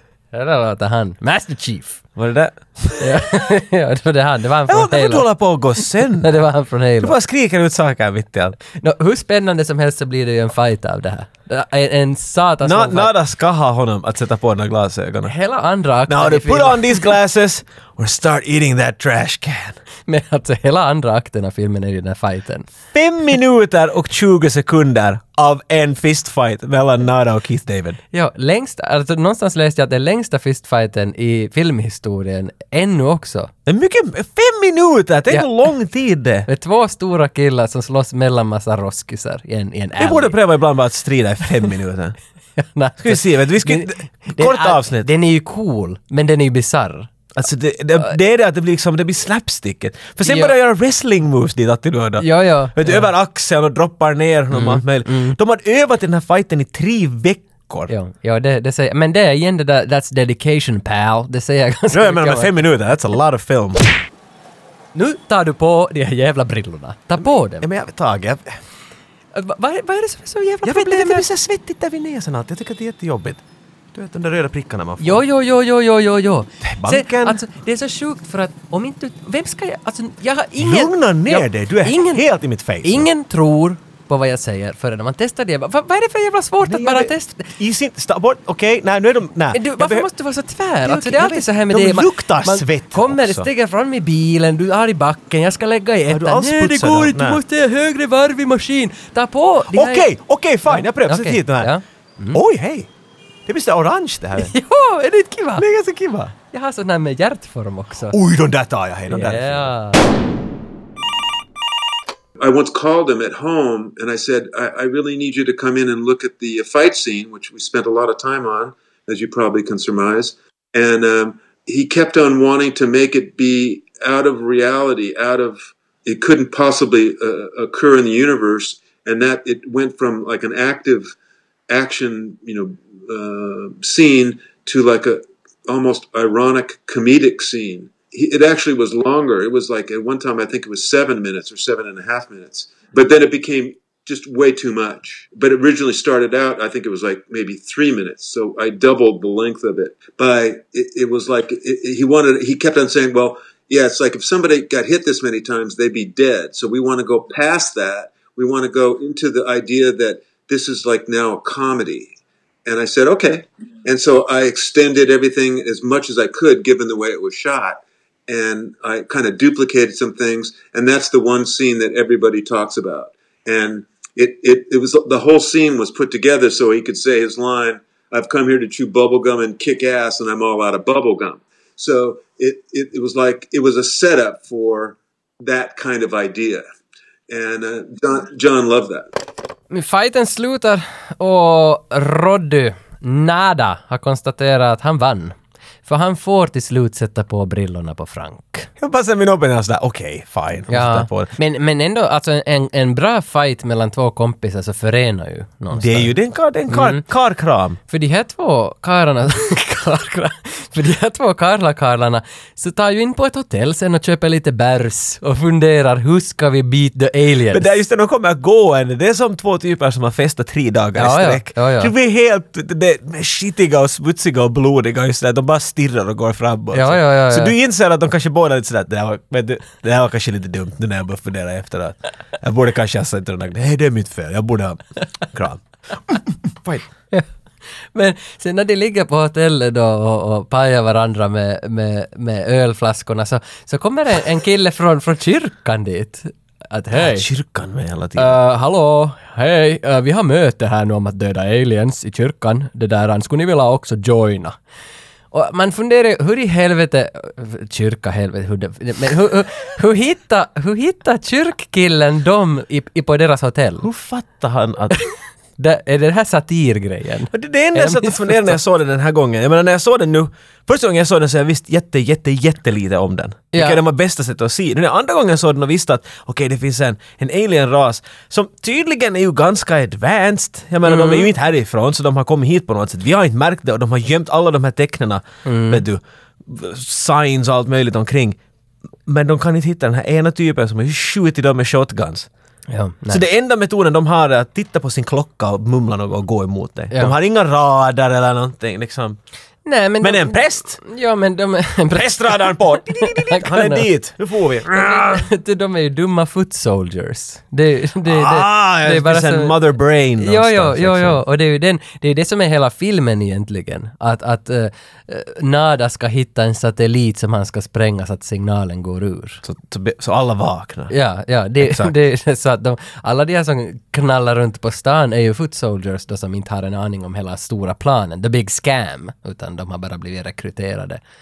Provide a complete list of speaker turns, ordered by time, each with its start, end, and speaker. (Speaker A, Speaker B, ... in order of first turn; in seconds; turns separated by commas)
Speaker A: 0.3-2.0, Speaker B: 2.2-3.2, Speaker A: 3.0-5.3, Speaker B: 4.7-6.3, Speaker A: 5.8-7.1, Speaker B: 7.0-8.6, Speaker A: 8.8-13.1, Speaker B: 12.6-15.3, Speaker A: 15.2-17.1, Speaker B: 16.1-19.8, Speaker A: 20.1-22.7, Speaker B: 22.9-28.0, Speaker A: 28.1-33.5, Speaker B: 33.7-36.5, Speaker A: 36.5-40.4, Speaker B: 40.0-42.2, Speaker A: 42.6-47.1, Speaker B: 43.0-45.1, Speaker B: 47.3-57.9, Speaker A: 50.2-50.5, Speaker A: 52.2-53.1, Speaker A: 54.5-55.4, Speaker A: 57.9-62.6, Speaker B: 61.9-63.8, Speaker A: 64.9-67.7, Speaker B: 67.6-68.6, Speaker A: 69.3-71.2, Speaker B: 70.6-73.4, Speaker B: 73.9-75.2, Speaker A: 75.0-82.2, Speaker B: 76.6-77.4, Speaker B: 80.6-83.1, Speaker A: 82.8-87.5, Speaker B: 86.6-90.1, Speaker A: 89.5-100.1, Speaker B: 90.8-93.5, Speaker B: 96.1-97.4, Speaker B: 99.7-101.7, Speaker A: 100.7-102.4, Speaker B: 102.3-102.9, Speaker B: 103.5-104.5, Speaker A: 104.4-105.7, Speaker B: 105.6-106.3, Speaker A: 106.5-108.2, Speaker B: 108.1-109.7, Speaker A: 109.1-110.0, Speaker C: 112.4-131.1, Speaker C: 131.7-162.1, Speaker C: 162.7-186.7, Speaker C: 187.3-189.1, Speaker A: 189.7-195.3, Speaker A: 195.9-198.7, Speaker B: 198.8-201.3, Speaker A: 200.7-206.1, Speaker B: 205.7-207.8, Speaker A: 206.7-207.0, Speaker A: 207.9-217.7, Speaker B: 217.5-236.9, Speaker A: 221.0-221.9, Speaker A: 226.7-227.5, Speaker A: 237.9-247.3, Speaker B: 246.9-248.4, Speaker A: 248.2-254.6, Speaker A: 255.3-263.9, Speaker B: 263.8-265.0, Speaker A: 265.6-268.6, Speaker B: 267.3-288.4, Speaker A: 273.5-273.8, Speaker A: 280.8-281.3, Speaker A: 285.4-285.8, Speaker B: 289.1-292.3, Speaker A: 292.7-293.2, Speaker B: 293.1-299.2, Speaker A: 299.6-303.9, Speaker B: 300.0-300.8, Speaker B: 301.9-305.2, Speaker A: 304.7-309.6, Speaker B: 308.1-311.2, Speaker A: 310.2-319.4, Speaker B: 319.4-320.9, Speaker A: 320.9-331.0, Speaker B: 321.6-321.9